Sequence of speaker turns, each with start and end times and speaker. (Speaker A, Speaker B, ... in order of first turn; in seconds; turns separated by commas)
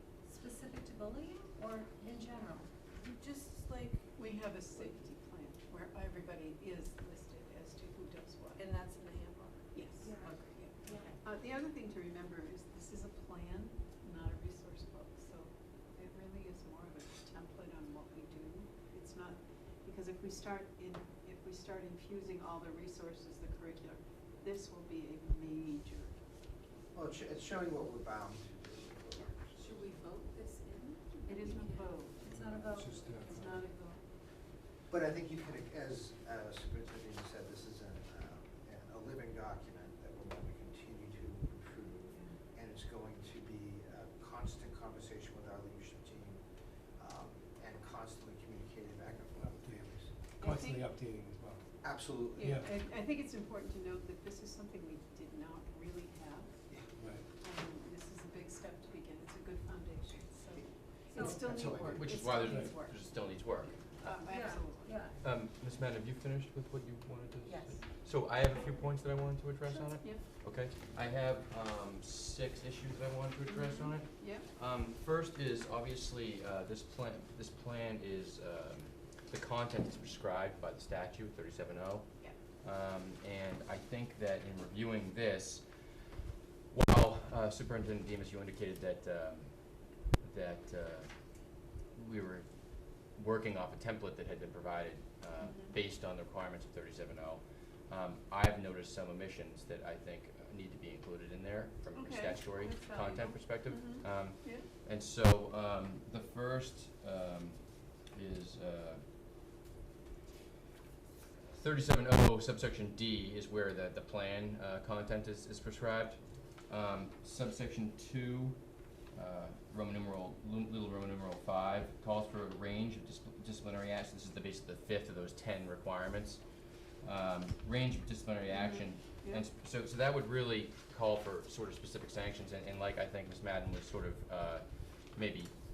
Speaker A: 0.3-2.7, Speaker B: 2.9-4.1, Speaker C: 4.2-8.6, Speaker B: 8.6-9.7, Speaker C: 9.7-26.2, Speaker A: 10.0-11.1, Speaker D: 26.9-29.9, Speaker C: 29.8-32.3, Speaker B: 31.1-31.8, Speaker A: 32.2-33.4, Speaker E: 32.3-33.7, Speaker C: 33.4-34.0, Speaker D: 34.9-46.4, Speaker D: 47.0-50.1, Speaker E: 49.4-49.8, Speaker C: 50.4-50.8, Speaker E: 50.4-51.7, Speaker D: 51.8-52.6, Speaker C: 52.4-56.6, Speaker E: 52.4-52.7, Speaker E: 57.0-57.2, Speaker C: 57.4-63.0, Speaker A: 61.1-61.5, Speaker D: 61.2-61.9, Speaker E: 61.5-62.8, Speaker F: 61.6-64.2, Speaker C: 64.0-65.1, Speaker A: 64.2-65.2, Speaker F: 65.2-82.0, Speaker A: 67.4-67.8, Speaker C: 69.9-70.2, Speaker C: 73.5-74.5, Speaker F: 82.6-85.6, Speaker F: 86.7-89.5, Speaker F: 90.2-91.1, Speaker F: 92.0-92.4, Speaker F: 93.1-107.6, Speaker C: 95.4-95.7, Speaker C: 101.9-104.6, Speaker F: 108.1-109.0, Speaker F: 111.5-118.6, Speaker F: 119.1-126.4, Speaker F: 127.0-134.6, Speaker C: 128.5-129.4, Speaker F: 135.1-135.5